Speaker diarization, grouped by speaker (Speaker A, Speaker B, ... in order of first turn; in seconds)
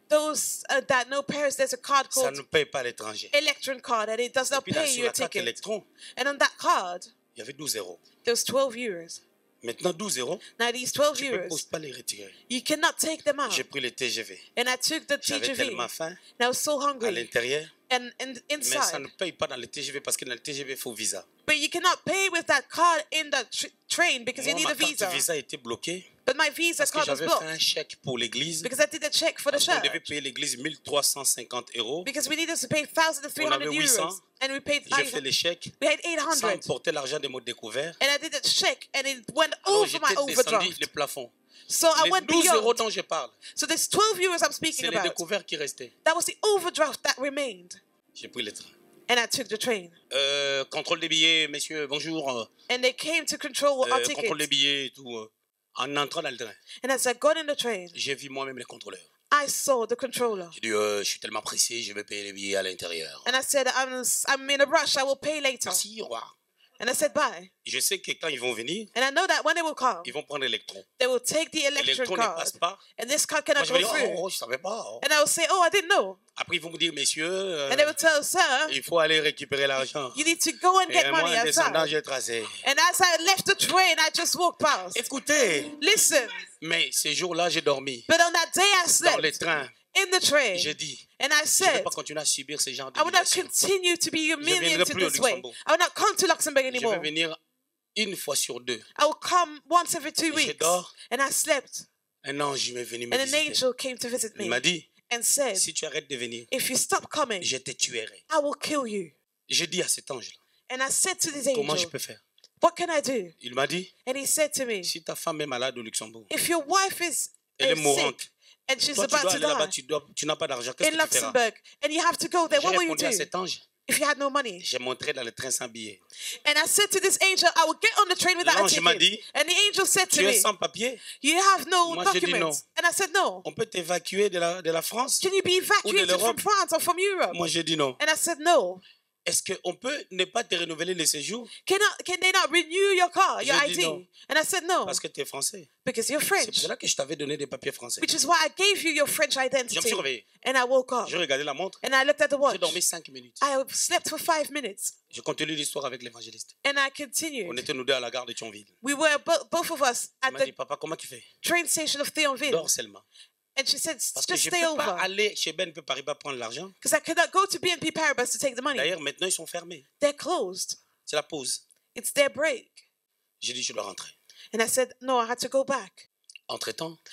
Speaker A: 0.1-2.4, 3.3-5.5, 6.2-7.1, 8.2-9.2, 10.6-11.6, 12.5-13.6, 14.6-17.3, 17.9-19.1, 21.4-25.2, 26.2-27.4, 28.6-30.1, 32.0-35.2, 35.8-36.7, 38.0-40.9, 41.7-42.8, 43.5-45.2, 46.0-47.8, 49.1-50.0, 52.7-54.4, 56.8-57.9, 59.3-60.5, 63.2-65.8, 66.8-67.5, 68.9-70.1, 71.0-74.2, 75.0-76.2, 77.7-78.7, 80.1-81.9, 82.6-85.0, 85.8-86.4, 88.1-89.4, 89.9-91.9, 92.9-97.1, 99.0-101.9, 103.1-105.6, 106.5-107.5, 108.3-109.1, 110.7-111.9, 112.6-113.3, 114.0-114.9, 116.3-119.7, 120.8-123.3, 123.8-124.6, 126.4-130.5, 131.1-133.4, 135.2-137.4, 138.0-138.8, 141.6-145.0, 145.8-146.7, 148.0-151.1, 151.8-152.8, 153.4-154.9, 156.6-157.6, 158.8-160.5, 161.4-162.7, 163.6-165.1, 166.8-168.9, 170.0-170.8, 171.9-172.8, 174.5-176.0
Speaker B: 2.1-3.3, 4.5-5.8, 7.3-8.0, 9.6-10.4, 11.1-12.4, 13.5-14.4, 15.2-16.2, 17.0-17.7, 18.6-21.2, 24.4-26.1, 26.8-28.7, 29.5-32.1, 33.4-34.2, 34.9-35.7, 36.3-38.0, 39.6-41.3, 42.0-43.4, 44.7-45.9, 48.1-48.7, 50.1-52.5, 53.8-56.6, 57.9-59.0, 60.5-63.3, 65.7-66.3, 67.6-68.9, 70.0-70.8, 71.8-72.8, 73.5-75.0, 76.3-77.9, 78.7-80.3, 80.9-82.6, 84.9-85.8, 86.6-88.0, 89.0-89.7, 90.5-91.0, 91.6-93.5, 94.4-95.5, 96.7-97.4, 97.9-98.8, 100.3-100.9, 102.2-103.6, 104.3-104.9, 105.5-106.5, 107.4-108.2, 109.5-110.4, 111.5-112.2, 113.4-113.9, 114.8-116.3, 117.6-118.3, 119.0-121.3, 122.5-123.6, 124.6-126.0, 128.4-129.2, 130.1-131.0, 131.8-132.6, 133.4-135.2, 135.8-136.4, 137.3-138.0, 139.2-141.5, 143.4-144.0, 144.8-145.7, 146.4-148.1, 149.7-150.2, 151.0-151.8, 152.4-153.4, 155.1-156.5, 157.4-158.7, 160.2-161.3, 162.4-163.0, 164.2-166.7, 168.7-169.8, 171.1-171.6, 173.4-174.1, 176.5-177.0